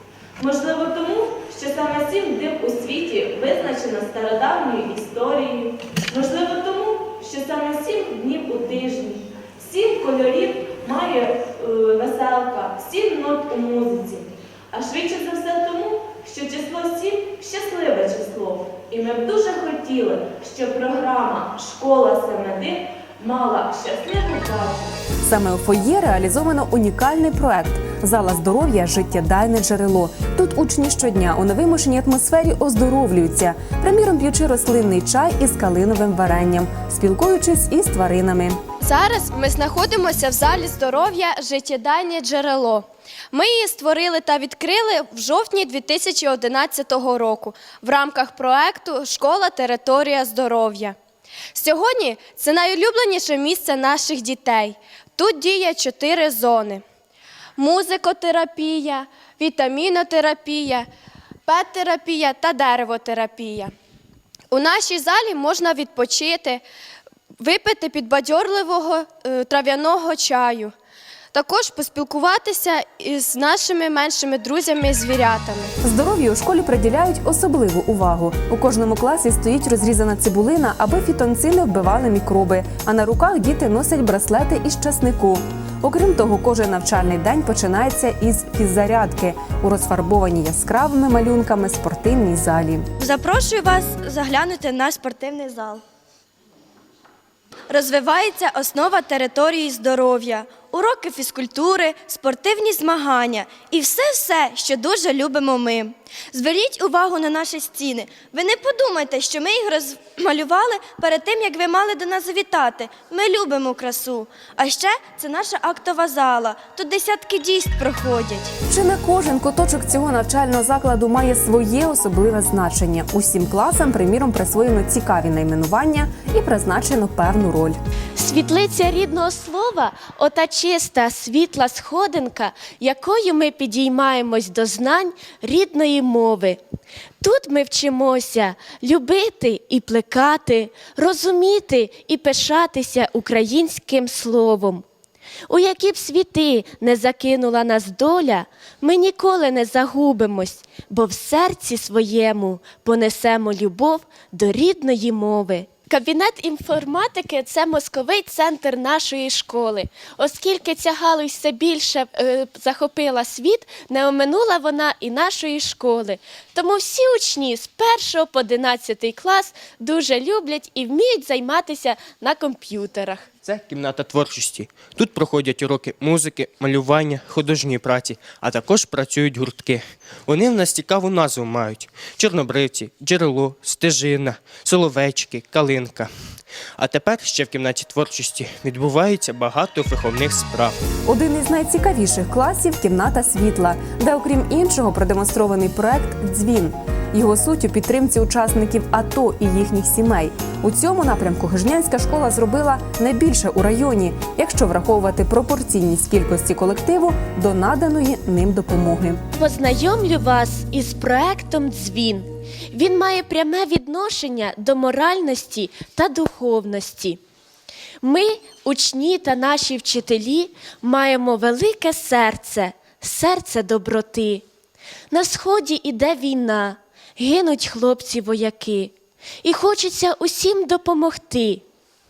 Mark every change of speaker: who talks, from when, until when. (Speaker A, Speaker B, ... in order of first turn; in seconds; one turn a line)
Speaker A: 0.4-25.0
Speaker B: 25.2-38.6
Speaker C: 38.8-51.0
Speaker C: 51.5-56.8
Speaker C: 57.6-60.9
Speaker C: 61.5-63.7
Speaker C: 64.5-66.6
Speaker C: 67.4-70.7
Speaker C: 71.3-75.7
Speaker B: 75.8-92.8
Speaker D: 93.0-95.8
Speaker D: 97.7-118.5
Speaker B: 118.7-127.8
Speaker E: 128.2-136.6
Speaker E: 137.2-144.8
Speaker E: 145.5-173.2
Speaker F: 173.4-186.1
Speaker F: 186.8-190.8
Speaker B: 191.0-209.2
Speaker E: 209.3-217.2
Speaker E: 218.0-224.4
Speaker E: 225.1-228.9
Speaker E: 229.4-231.6